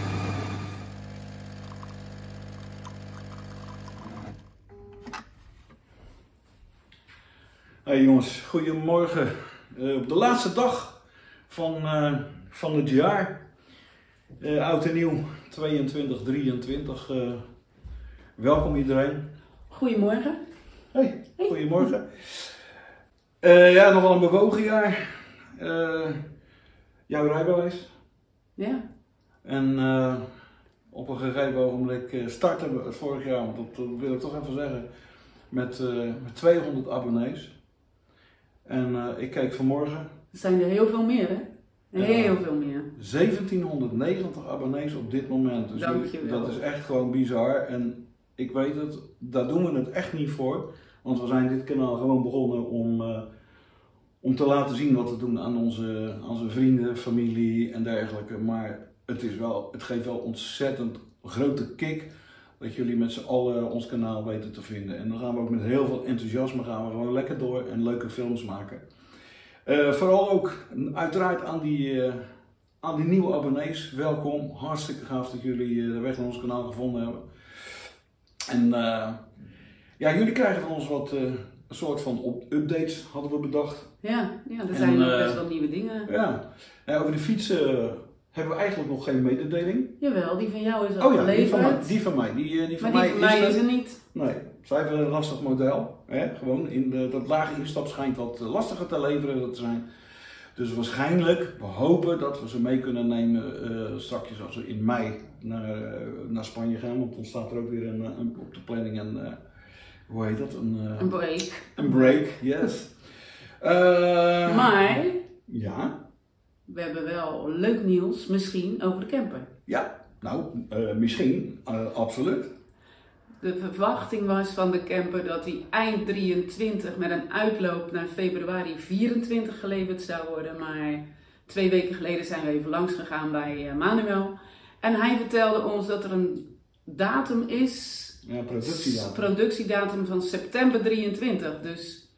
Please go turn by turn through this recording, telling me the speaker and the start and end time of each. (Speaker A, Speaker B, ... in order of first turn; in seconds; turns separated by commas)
Speaker A: 7.8-13.5, Speaker A: 14.4-17.4, Speaker A: 18.4-19.2, Speaker B: 19.7-20.4, Speaker A: 20.9-22.5, Speaker A: 23.4-26.2, Speaker A: 27.1-27.9, Speaker B: 28.6-28.8, Speaker A: 29.4-30.2, Speaker A: 30.9-34.9, Speaker A: 35.5-37.5, Speaker A: 38.6-40.1, Speaker B: 40.3-42.9, Speaker A: 42.0-42.4, Speaker A: 43.0-53.3, Speaker B: 45.7-46.6, Speaker A: 54.2-68.8, Speaker A: 69.7-72.2, Speaker A: 72.8-77.8, Speaker A: 78.5-79.2, Speaker A: 80.0-83.9, Speaker B: 84.0-86.1, Speaker A: 84.7-85.4, Speaker A: 86.1-90.0, Speaker B: 90.0-91.9, Speaker A: 91.0-93.6, Speaker B: 92.8-94.0, Speaker A: 94.1-99.9, Speaker A: 100.5-109.4, Speaker A: 110.1-111.2, Speaker B: 111.0-112.4, Speaker A: 111.7-113.0, Speaker A: 113.6-116.0, Speaker B: 114.5-115.2, Speaker B: 116.7-119.5, Speaker A: 119.7-122.5, Speaker B: 123.4-142.0, Speaker A: 138.2-139.3